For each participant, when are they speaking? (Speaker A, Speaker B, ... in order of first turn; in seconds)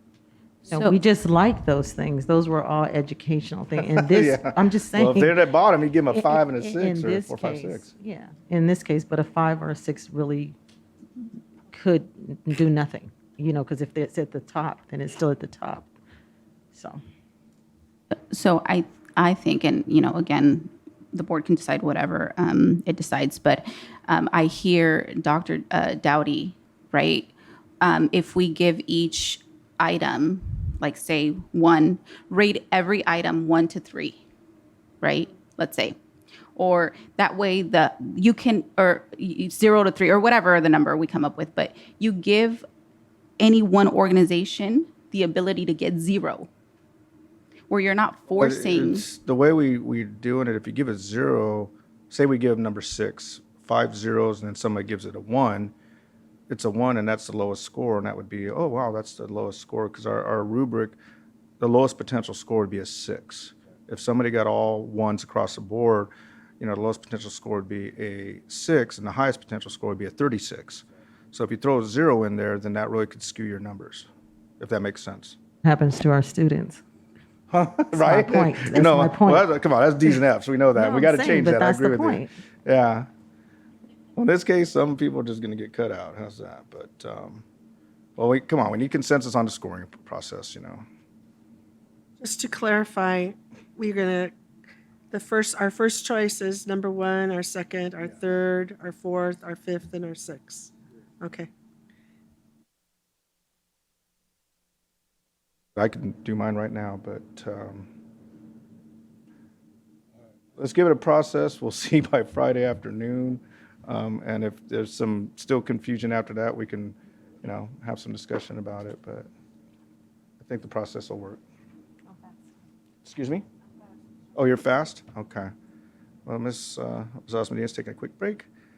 Speaker A: 0.7-5.4, 6.1-10.6, 11.7-15.9, 16.7-17.0, 75.6-76.8, 77.9-79.5, 80.8-82.3
Speaker B: 0.7-1.0, 18.3-34.2, 35.0-36.0, 36.6-42.6, 43.4-46.5, 47.7-49.0
Speaker C: 4.0-7.9, 48.4-55.7, 56.5-61.0, 61.6-74.1, 74.6-75.4, 77.5-83.1, 84.2-87.4, 88.2-90.8, 105.8-107.9, 110.6-119.3, 120.4-121.4, 123.0-123.5, 124.3-125.5, 126.3-128.5
Speaker D: 92.2-94.3, 95.1-101.5